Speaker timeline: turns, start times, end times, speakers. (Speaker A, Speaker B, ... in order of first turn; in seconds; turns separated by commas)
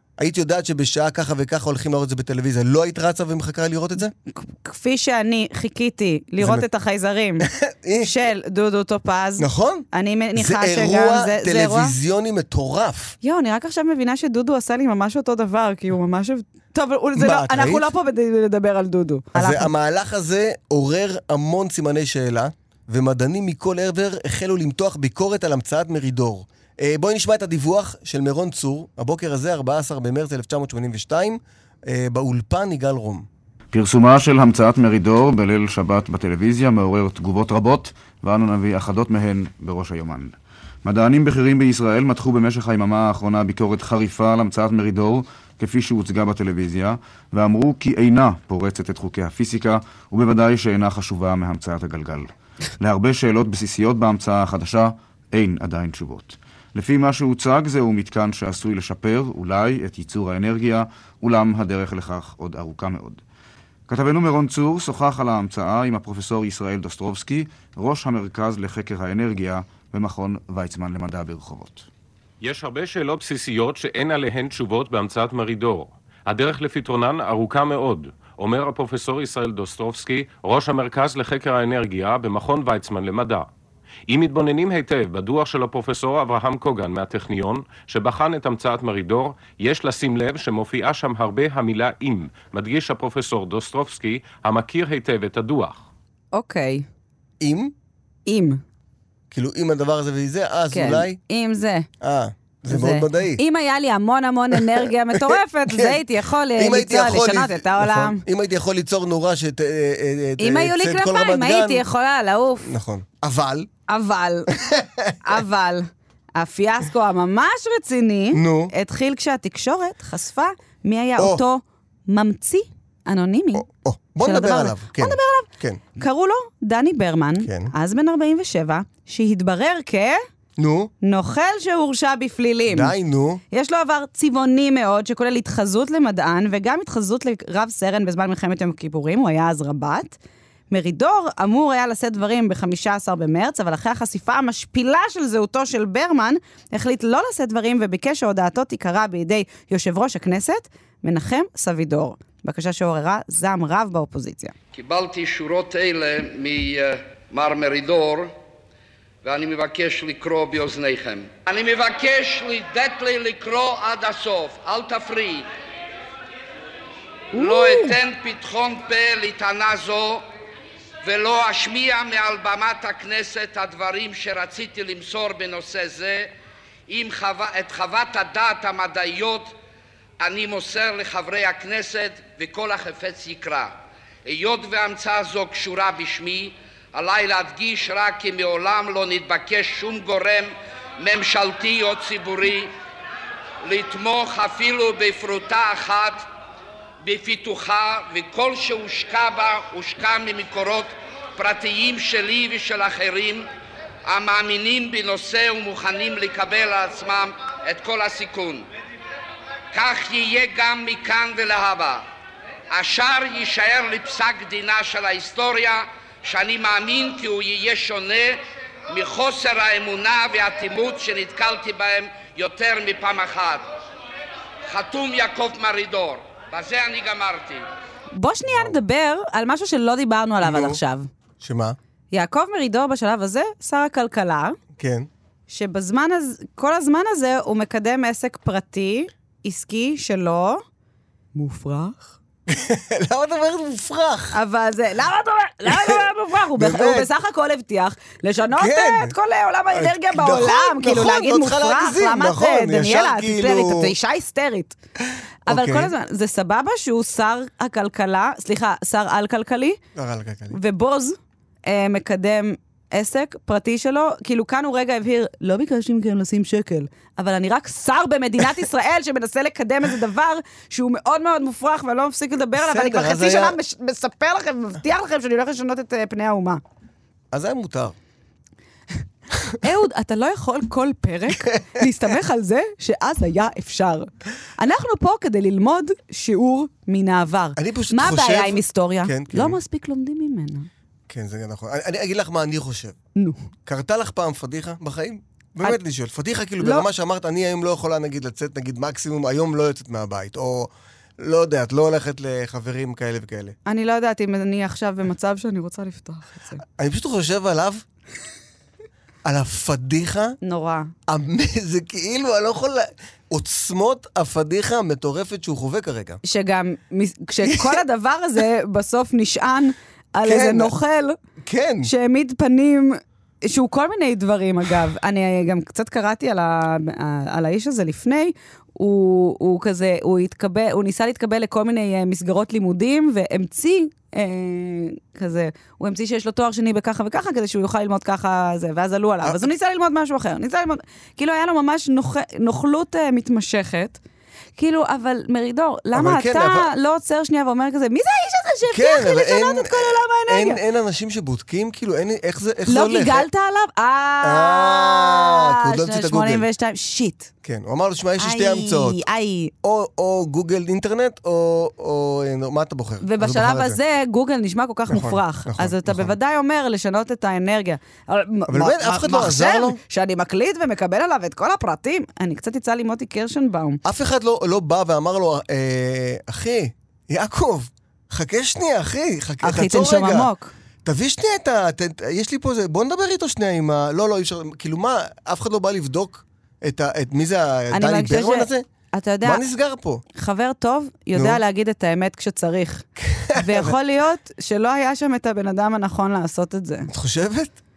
Speaker A: 0.2-4.1, Speaker B: 4.3-7.5, Speaker A: 6.4-6.7, Speaker A: 7.4-8.1, Speaker B: 8.0-11.9, Speaker A: 9.4-13.2, Speaker B: 13.2-19.7, Speaker A: 17.2-17.9, Speaker A: 19.4-33.3, Speaker C: 33.7-52.3, Speaker C: 52.8-63.2, Speaker C: 63.9-71.9, Speaker D: 72.4-83.5, Speaker D: 84.1-95.8, Speaker B: 96.3-96.8, Speaker A: 97.4-97.7, Speaker B: 98.3-98.6, Speaker A: 99.3-101.2, Speaker B: 100.7-101.9, Speaker A: 102.0-103.4, Speaker B: 102.7-108.2, Speaker A: 104.5-111.8, Speaker B: 110.4-112.7, Speaker A: 112.6-113.7, Speaker B: 113.9-114.5, Speaker A: 114.5-115.2, Speaker B: 115.2-123.7, Speaker A: 118.3-118.7, Speaker A: 121.2-121.4, Speaker A: 123.6-125.8, Speaker B: 124.2-130.2, Speaker A: 127.4-127.7, Speaker A: 130.6-130.9, Speaker B: 131.0-132.9, Speaker A: 132.7-133.4, Speaker B: 133.5-140.2, Speaker B: 140.7-154.5, Speaker E: 154.7-158.3, Speaker E: 159.2-165.5, Speaker B: 167.3-168.0, Speaker E: 167.3-170.2, Speaker E: 171.0-176.3, Speaker E: 176.9-179.5, Speaker E: 180.2-192.7, Speaker E: 193.6-196.2, Speaker E: 197.0-203.5, Speaker E: 204.1-208.7, Speaker E: 209.7-212.0, Speaker E: 212.7-223.7, Speaker E: 224.7-227.7, Speaker B: 228.1-231.1, Speaker A: 228.5-228.8, Speaker A: 230.4-230.8, Speaker A: 231.4-231.8, Speaker B: 232.1-234.6, Speaker A: 234.8-235.1, Speaker B: 235.5-240.6, Speaker B: 241.3-242.0, Speaker A: 242.5-244.4, Speaker B: 244.3-254.8, Speaker A: 245.7-246.0, Speaker A: 246.6-247.1, Speaker A: 248.5-249.2, Speaker A: 249.7-253.9, Speaker A: 255.5-255.9, Speaker B: 255.5-259.8, Speaker A: 259.9-260.6, Speaker B: 260.5-276.6, Speaker A: 272.6-273.6, Speaker A: 277.3-278.0, Speaker B: 279.6-290.7, Speaker A: 281.4-281.8, Speaker A: 287.6-289.6, Speaker A: 291.1-293.0, Speaker B: 293.2-293.4, Speaker A: 293.7-303.6, Speaker B: 296.6-296.9, Speaker B: 303.7-306.6, Speaker A: 306.8-307.8, Speaker A: 309.2-310.4, Speaker B: 310.4-310.9, Speaker A: 311.1-316.2, Speaker B: 316.2-321.1, Speaker A: 317.4-317.8, Speaker A: 320.2-320.7, Speaker A: 321.4-321.9, Speaker B: 321.8-344.0, Speaker B: 344.6-350.6, Speaker A: 345.9-346.7, Speaker A: 348.7-353.3, Speaker B: 352.7-357.3, Speaker A: 354.2-356.5, Speaker A: 357.4-359.0, Speaker B: 358.2-359.5, Speaker A: 359.6-363.8, Speaker B: 363.0-373.8, Speaker A: 364.9-366.1, Speaker A: 368.5-369.8, Speaker A: 373.9-380.3, Speaker B: 379.4-380.5, Speaker A: 380.8-388.7, Speaker B: 387.7-389.4, Speaker A: 389.2-390.0, Speaker B: 390.2-392.9, Speaker A: 391.1-391.4, Speaker A: 393.0-393.7, Speaker B: 393.4-396.9, Speaker A: 396.9-397.6